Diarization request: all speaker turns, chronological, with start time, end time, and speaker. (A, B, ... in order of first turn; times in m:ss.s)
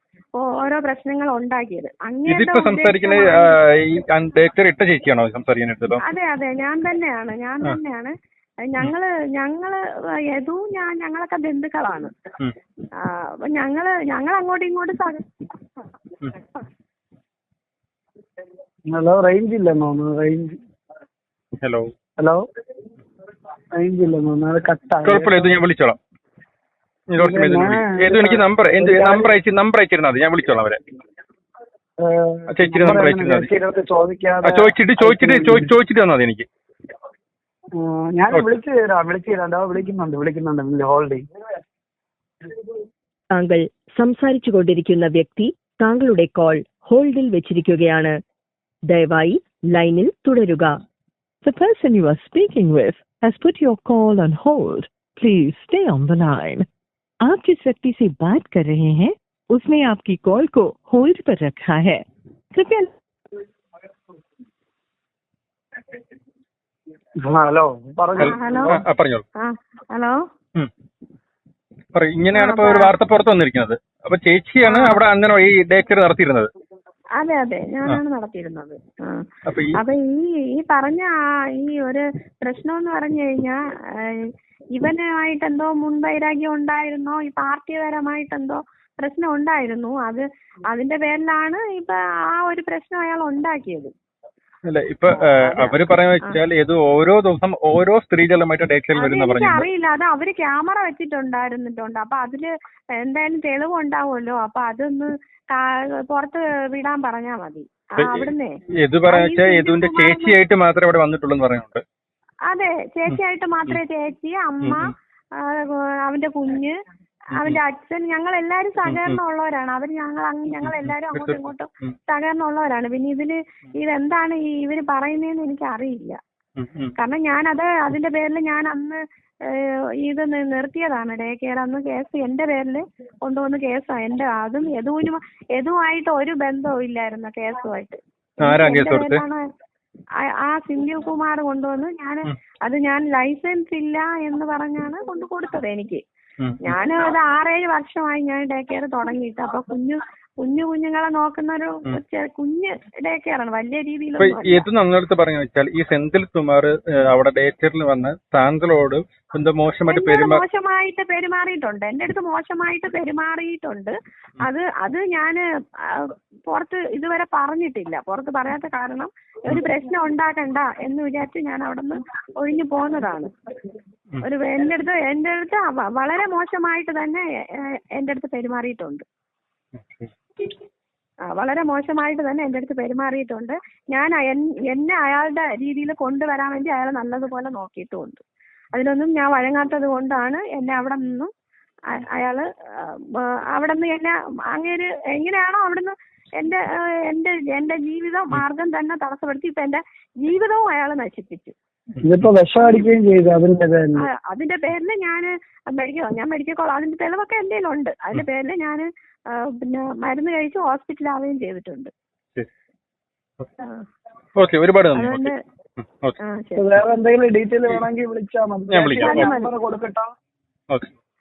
0:00.4-0:03.5 A
0:02.3-0:06.0 B
0:06.0-0:08.1 A
0:08.6-0:09.8 A
0:10.3-0:12.1 A
0:13.0-0:15.2 A
0:18.9-0:20.6 C
0:21.6-0:21.9 B
0:23.8-0:25.4 C
0:25.0-0:26.0 B
0:27.1-0:30.8 B
0:27.2-0:29.3 C
0:32.0-0:35.7 C
0:32.5-0:33.5 B
0:34.4-0:36.5 B
0:37.8-0:41.3 C
0:38.3-0:38.6 B
0:43.3-0:48.2 D
0:48.9-0:50.8 D
0:51.4-0:56.7 E
0:57.2-1:02.9 E
1:07.2-1:08.8 C
1:08.2-1:09.2 B
1:08.2-1:08.8 A
1:09.4-1:10.2 A
1:11.9-1:16.5 B
1:12.4-1:12.9 A
1:14.7-1:15.0 A
1:17.2-1:19.3 A
1:19.5-1:19.8 B
1:19.8-1:33.9 A
1:34.7-1:39.7 B
1:35.1-1:36.4 A
1:39.0-1:42.5 A
1:43.0-1:48.5 A
1:48.0-1:51.8 B
1:49.1-1:50.4 A
1:52.5-1:56.8 A
1:53.1-1:53.8 B
1:54.6-1:54.9 B
1:57.4-1:57.6 B
1:57.4-2:06.2 A
1:58.8-1:59.2 B
2:00.6-2:02.0 B
2:06.6-2:07.0 B
2:07.0-2:19.4 A
2:18.4-2:19.2 B
2:20.4-2:26.0 A
2:26.6-2:34.6 A
2:34.2-2:40.4 B
2:39.9-2:53.3 A
2:54.2-2:59.0 A
2:59.8-3:00.1 B
3:01.3-3:08.2 A
3:08.7-3:11.3 A
3:11.9-3:21.6 A
3:22.0-3:22.3 B
3:22.0-3:24.1 C
3:22.6-3:22.9 A
3:24.0-3:31.9 A
3:34.4-3:36.2 B
3:35.0-3:35.3 A
3:36.2-3:36.8 A
3:36.6-3:40.1 C
3:38.7-3:39.3 B
3:39.0-3:39.5 A